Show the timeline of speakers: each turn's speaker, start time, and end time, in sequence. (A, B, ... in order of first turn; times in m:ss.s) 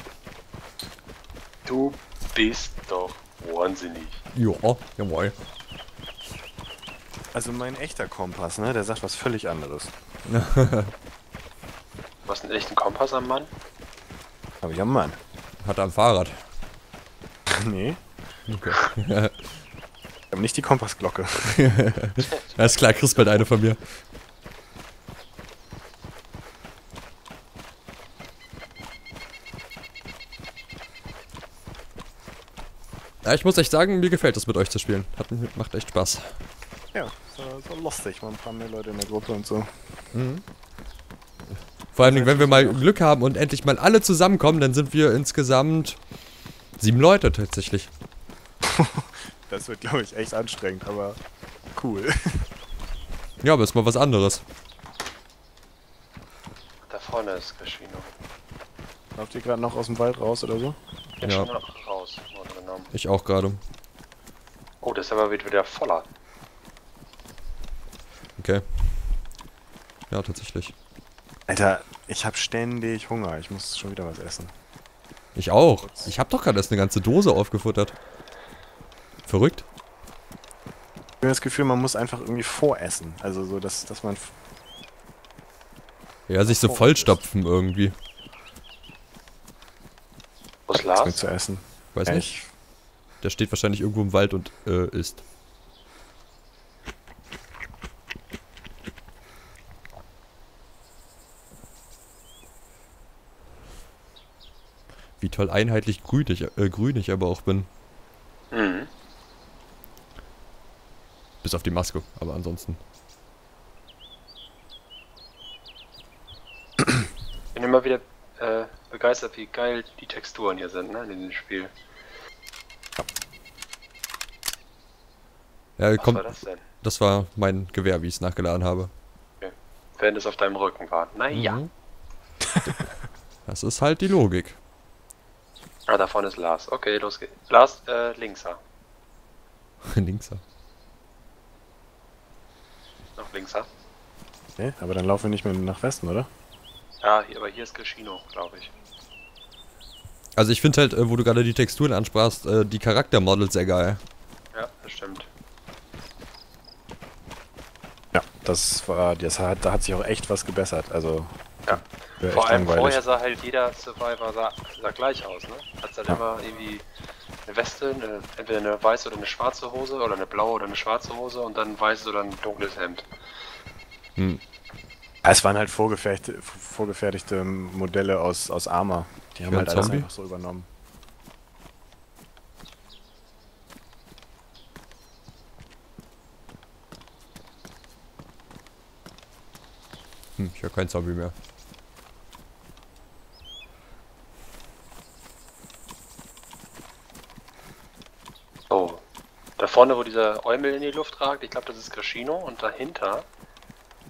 0:01.6-0:04.2 A
0:04.3-0:05.3 B
0:07.3-0:09.9 C
0:10.3-0:10.9 B
0:12.3-0:13.5 A
0:14.6-0:15.2 C
0:15.6-0:16.3 B
0:17.5-0:18.0 C
0:18.5-0:19.5 B
0:20.3-0:21.6 C
0:21.5-0:23.8 B
0:22.2-0:23.5 A
0:33.2-0:36.4 B
0:36.9-0:40.2 C
0:42.0-0:46.0 B
0:42.0-0:42.8 C
0:46.8-0:47.9 B
0:48.6-0:51.2 C
0:51.8-0:52.5 C
0:53.4-0:54.4 B
0:56.9-0:58.1 A
0:59.2-1:00.8 C
1:01.2-1:02.9 A
1:01.2-1:01.5 B
1:02.9-1:03.6 B
1:04.8-1:06.1 A
1:08.4-1:08.7 B
1:10.1-1:10.7 B
1:11.5-1:14.5 C
1:15.4-1:18.0 B
1:15.9-1:16.1 C
1:19.3-1:19.6 B
1:21.2-1:24.3 C
1:26.3-1:27.9 B
1:26.4-1:27.2 C
1:30.7-1:31.2 A
1:30.7-1:32.5 C
1:32.0-1:32.3 B
1:33.2-1:35.2 B
1:45.2-1:47.7 B
1:48.5-1:48.9 A
1:51.4-1:52.8 B
1:57.6-2:01.7 A
2:05.8-2:06.2 B
2:06.0-2:06.6 A
2:06.8-2:08.9 B
2:09.4-2:11.6 A
2:11.3-2:11.7 B
2:13.5-2:14.6 B
2:15.9-2:18.6 A
2:19.8-2:20.4 B
2:23.2-2:23.7 A
2:24.6-2:26.3 C
2:27.0-2:28.7 A
2:30.4-2:34.0 B
2:34.5-2:35.3 A
2:38.1-2:43.0 C
2:41.7-2:46.8 A
2:47.5-2:53.1 A
2:55.2-3:00.7 C
2:59.4-3:00.1 B
3:10.4-3:11.3 B
3:18.7-3:19.0 A
3:19.6-3:23.3 A